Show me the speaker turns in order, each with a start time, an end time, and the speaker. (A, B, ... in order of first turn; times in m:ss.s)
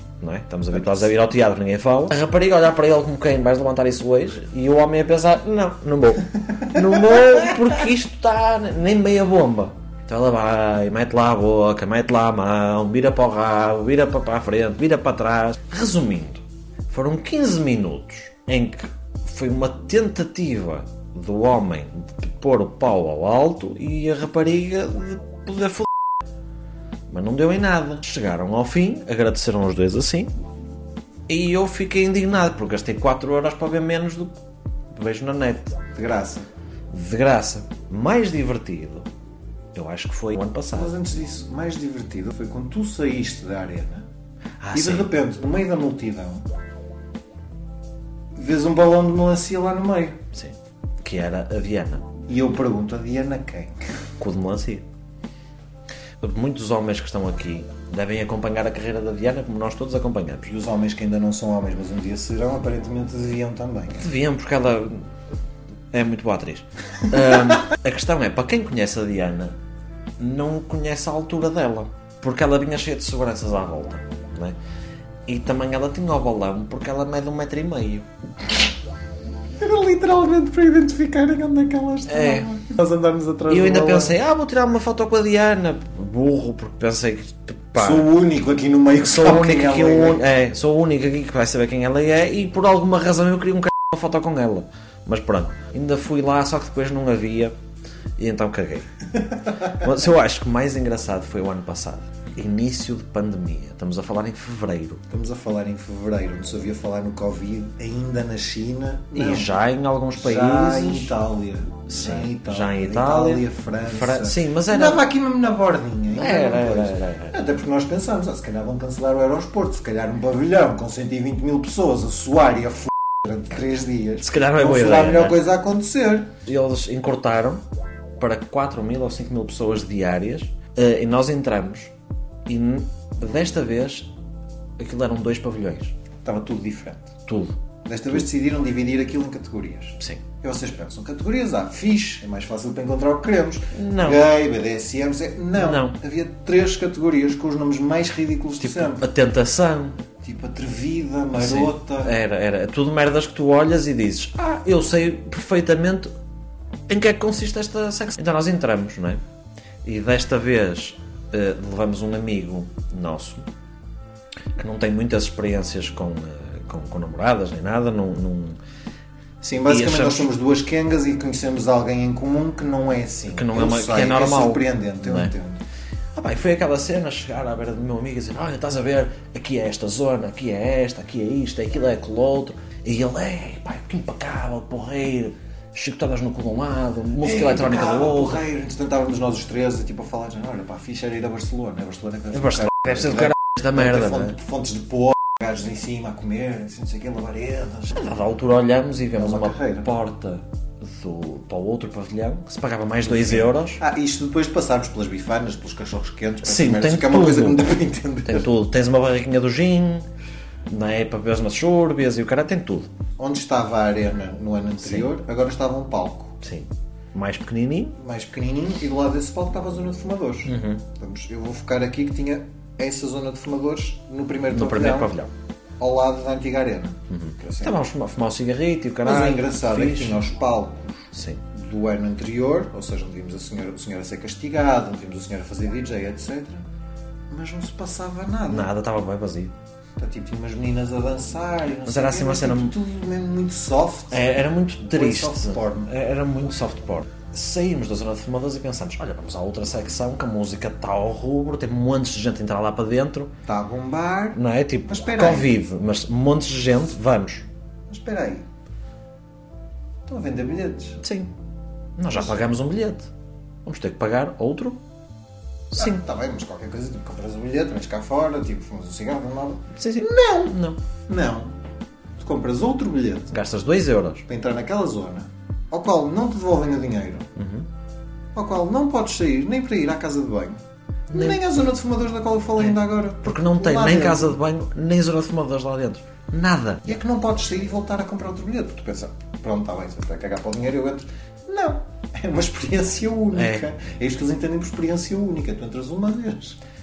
0:00.2-0:25.9 A
0:00.8-0:01.0 B
0:06.7-0:07.4 B
0:27.1-0:30.3 A
0:31.3-0:34.3 A
0:34.9-0:35.8 A
0:35.9-0:36.5 B
0:36.9-0:39.1 A
0:39.8-0:41.0 A
0:40.7-0:44.1 B
0:44.6-0:45.1 A
0:44.7-0:46.5 B
0:48.4-0:50.2 B
0:50.3-0:52.1 A
0:52.3-0:53.8 B
0:54.2-0:54.8 A
0:56.2-1:00.5 A
1:00.5-1:04.1 B
1:04.0-1:05.1 A
1:05.9-1:09.6 A
1:10.2-1:14.6 A
1:15.3-1:18.1 A
1:19.6-1:24.2 B
1:22.1-1:22.5 A
1:23.5-1:28.1 A
1:27.8-1:30.2 B
1:29.0-1:37.6 A
1:38.2-1:38.9 A
1:39.5-1:45.0 A
1:45.1-1:49.5 B
1:49.2-1:51.2 A
1:50.2-2:06.3 B
1:51.9-1:55.0 A
1:56.1-1:57.4 A
2:04.2-2:05.4 A
2:06.4-2:07.6 A
2:08.2-2:11.9 A
2:12.5-2:14.1 A
2:14.8-2:16.0 A
2:16.2-2:17.1 B
2:17.3-2:17.6 A
2:17.8-2:29.1 B
2:23.7-2:24.2 A
2:25.6-2:26.0 A
2:28.6-2:30.0 A
2:30.2-2:32.2 B
2:31.4-2:36.1 A
2:36.9-2:39.2 A
2:39.8-2:43.5 A
2:44.6-2:48.6 A
2:49.4-2:55.6 B
2:49.6-2:50.3 A
2:53.3-2:55.3 A
2:56.2-3:08.4 A
3:07.2-3:18.0 B
3:12.3-3:14.4 A
3:18.0-3:23.8 A
3:19.2-3:19.9 B
3:23.1-3:28.5 B
3:26.4-3:30.1 A
3:30.7-3:32.9 A
3:33.2-3:36.4 B
3:34.8-3:35.1 A
3:36.4-3:38.0 A
3:38.0-3:45.1 B
3:40.5-3:40.8 A
3:44.5-3:45.3 A
3:45.8-3:47.8 B
3:47.1-3:50.3 A
3:49.0-3:56.7 B
3:51.1-3:51.4 A
3:57.3-3:58.7 B
3:58.5-3:59.5 A
4:00.0-4:05.9 B
4:01.9-4:02.8 A
4:04.1-4:13.3 A
4:13.5-4:15.6 B
4:14.3-4:17.5 A
4:17.9-4:18.5 B
4:20.1-4:21.0 B
4:21.0-4:21.3 A
4:22.0-4:23.1 A
4:23.6-4:24.8 A
4:25.7-4:26.0 A
4:25.8-4:31.6 B
4:29.8-4:30.8 A
4:32.2-4:33.4 B
4:33.3-4:34.3 A
4:34.3-4:37.3 B
4:37.4-4:37.7 A
4:38.4-4:40.6 B
4:41.1-4:44.4 B
4:41.1-4:41.4 A
4:42.6-4:47.0 A
4:46.9-4:56.6 B
4:53.4-4:53.6 A